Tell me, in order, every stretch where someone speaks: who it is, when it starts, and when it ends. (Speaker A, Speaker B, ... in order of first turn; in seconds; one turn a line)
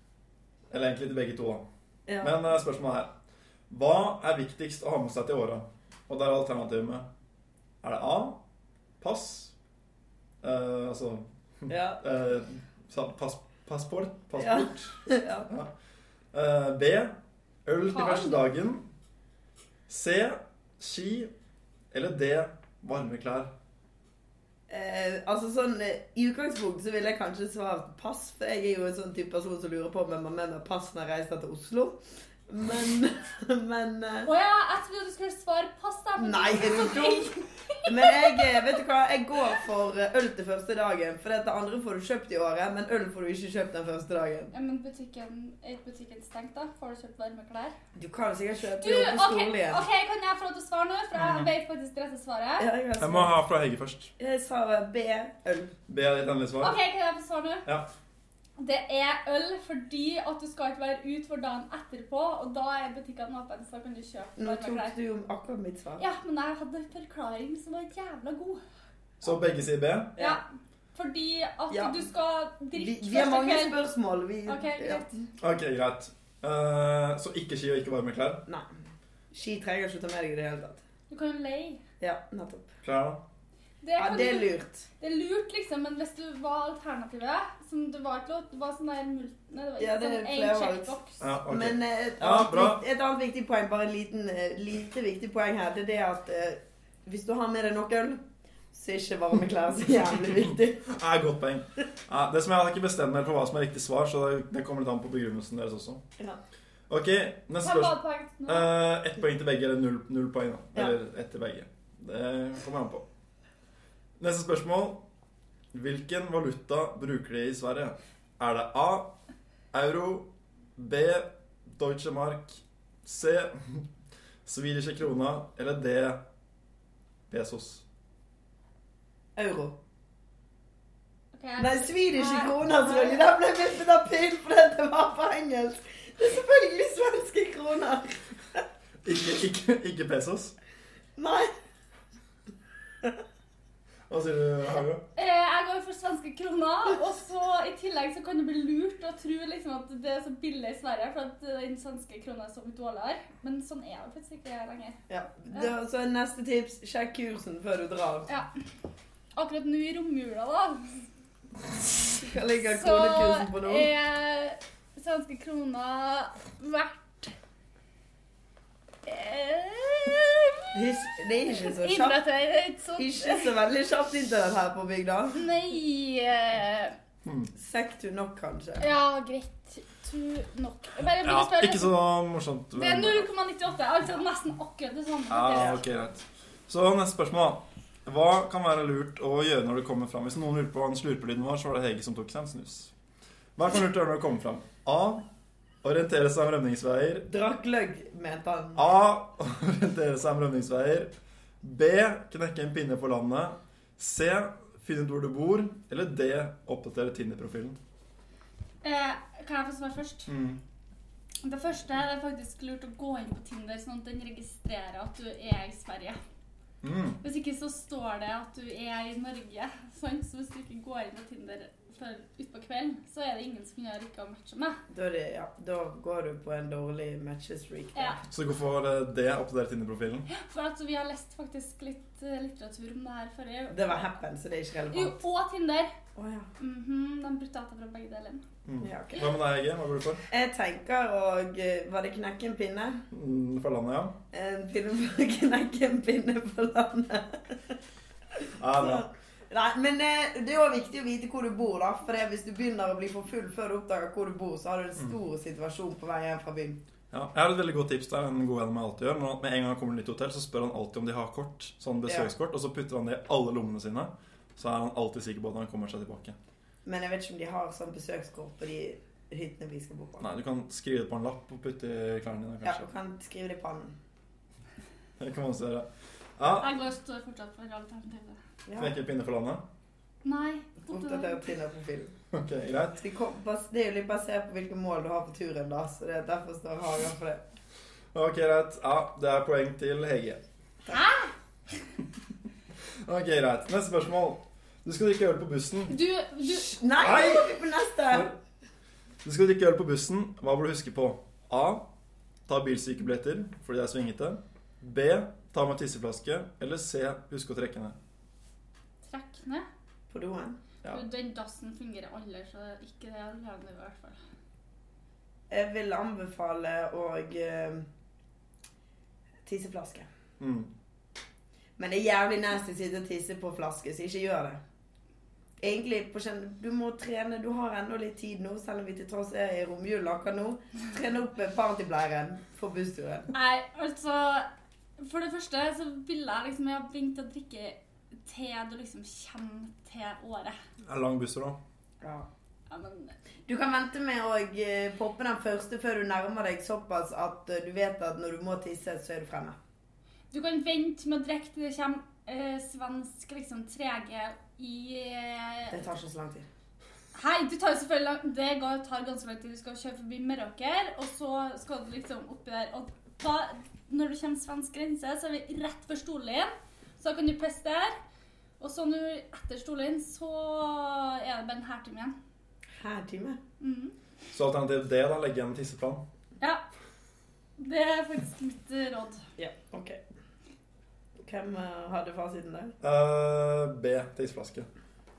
Speaker A: 0.7-1.6
Speaker B: 2.1-2.4
Speaker A: 2.2-3.1
Speaker A: 3.7-7.1
Speaker A: 7.8-8.4
Speaker A: 9.0-9.5
Speaker A: 10.4-15.7
Speaker B: 11.7-12.0
Speaker B: 14.4-15.5
Speaker A: 16.3-17.1
Speaker A: 17.7-18.9
Speaker C: 17.9-18.4
Speaker A: 19.9-21.3
Speaker A: 21.9-23.5
Speaker B: 24.7-34.3
Speaker C: 34.3-38.8
Speaker B: 36.2-37.3
Speaker B: 37.9-44.5
Speaker C: 44.5-47.8
Speaker B: 48.0-49.8
Speaker C: 48.8-52.7
Speaker A: 51.2-51.5
Speaker B: 52.6-53.3
Speaker A: 53.0-54.1
Speaker B: 54.2-55.7
Speaker A: 55.9-56.8
Speaker C: 56.6-57.6
Speaker C: 58.6-65.0
Speaker B: 64.4-66.0
Speaker C: 66.0-68.6
Speaker A: 69.2-70.1
Speaker B: 70.2-70.4
Speaker C: 70.2-70.4
Speaker C: 70.9-73.8
Speaker B: 71.7-72.0
Speaker B: 72.7-75.1
Speaker C: 74.5-75.1
Speaker A: 75.4-78.4
Speaker B: 79.3-80.8
Speaker C: 81.1-81.8
Speaker B: 82.0-82.7
Speaker A: 82.8-83.2
Speaker C: 83.8-91.2
Speaker B: 84.0-84.9
Speaker B: 89.8-90.9
Speaker A: 91.2-92.8
Speaker B: 91.5-98.2
Speaker B: 98.7-100.8
Speaker A: 100.3-106.0
Speaker A: 106.9-113.0
Speaker C: 107.6-108.7
Speaker A: 114.2-115.0
Speaker A: 115.7-119.2
Speaker A: 119.7-123.9
Speaker A: 124.5-126.2
Speaker A: 127.3-127.8
Speaker B: 129.4-129.8
Speaker C: 131.3-133.3
Speaker B: 131.6-138.6
Speaker A: 139.0-140.6
Speaker B: 141.2-141.5
Speaker A: 144.1-145.0
Speaker C: 145.2-155.0
Speaker B: 155.1-158.3
Speaker C: 159.4-161.0
Speaker B: 162.2-163.9
Speaker C: 162.6-167.3
Speaker C: 169.1-170.8
Speaker B: 170.7-172.2
Speaker C: 171.4-173.5
Speaker B: 173.0-175.4
Speaker C: 175.3-176.9
Speaker A: 177.2-177.5
Speaker B: 177.6-178.8
Speaker C: 178.8-181.9
Speaker A: 181.2-183.3
Speaker C: 182.8-185.8
Speaker A: 185.3-192.9
Speaker A: 193.6-195.3
Speaker A: 195.8-197.3
Speaker B: 197.3-198.8
Speaker A: 198.8-201.1
Speaker A: 201.6-207.8
Speaker C: 208.8-210.3
Speaker A: 210.3-210.6
Speaker C: 211.4-216.2
Speaker A: 216.8-217.2
Speaker C: 217.2-224.8
Speaker B: 224.9-228.2
Speaker A: 228.3-230.3
Speaker C: 230.3-234.1
Speaker B: 233.7-235.2
Speaker C: 234.9-235.9
Speaker B: 236.2-236.5
Speaker C: 236.6-238.4
Speaker A: 238.7-240.2
Speaker B: 238.8-239.3
Speaker B: 240.3-243.0
Speaker A: 243.1-244.2
Speaker B: 244.3-247.8
Speaker B: 248.5-256.8
Speaker A: 248.6-249.1
Speaker A: 257.1-266.4
Speaker B: 266.9-270.3
Speaker A: 270.2-272.9
Speaker B: 272.6-274.0
Speaker A: 275.2-276.7
Speaker C: 276.6-278.4
Speaker B: 278.7-278.9
Speaker A: 278.8-279.6
Speaker C: 280.2-281.4
Speaker B: 280.9-282.1
Speaker A: 282.3-283.0
Speaker B: 283.0-287.4
Speaker A: 288.1-290.4
Speaker C: 290.9-291.3
Speaker A: 293.0-296.0
Speaker C: 295.9-296.8
Speaker B: 296.4-298.3
Speaker A: 297.0-297.5
Speaker A: 299.2-301.9
Speaker A: 302.5-308.0
Speaker C: 309.0-309.7
Speaker B: 310.1-310.6
Speaker C: 310.9-314.2
Speaker B: 315.5-317.9
Speaker B: 319.5-320.1
Speaker A: 320.4-320.7
Speaker B: 321.8-324.6
Speaker B: 325.6-333.3
Speaker C: 333.3-340.6
Speaker A: 340.9-341.6
Speaker B: 342.0-342.3
Speaker C: 342.7-343.1
Speaker B: 343.5-349.6
Speaker C: 350.3-355.8
Speaker B: 355.7-356.5
Speaker C: 357.1-368.0
Speaker C: 368.6-372.1
Speaker B: 372.8-373.4
Speaker C: 373.6-374.0
Speaker A: 374.3-376.0
Speaker C: 377.6-379.3
Speaker B: 379.4-380.0
Speaker B: 381.2-382.7
Speaker A: 382.8-384.7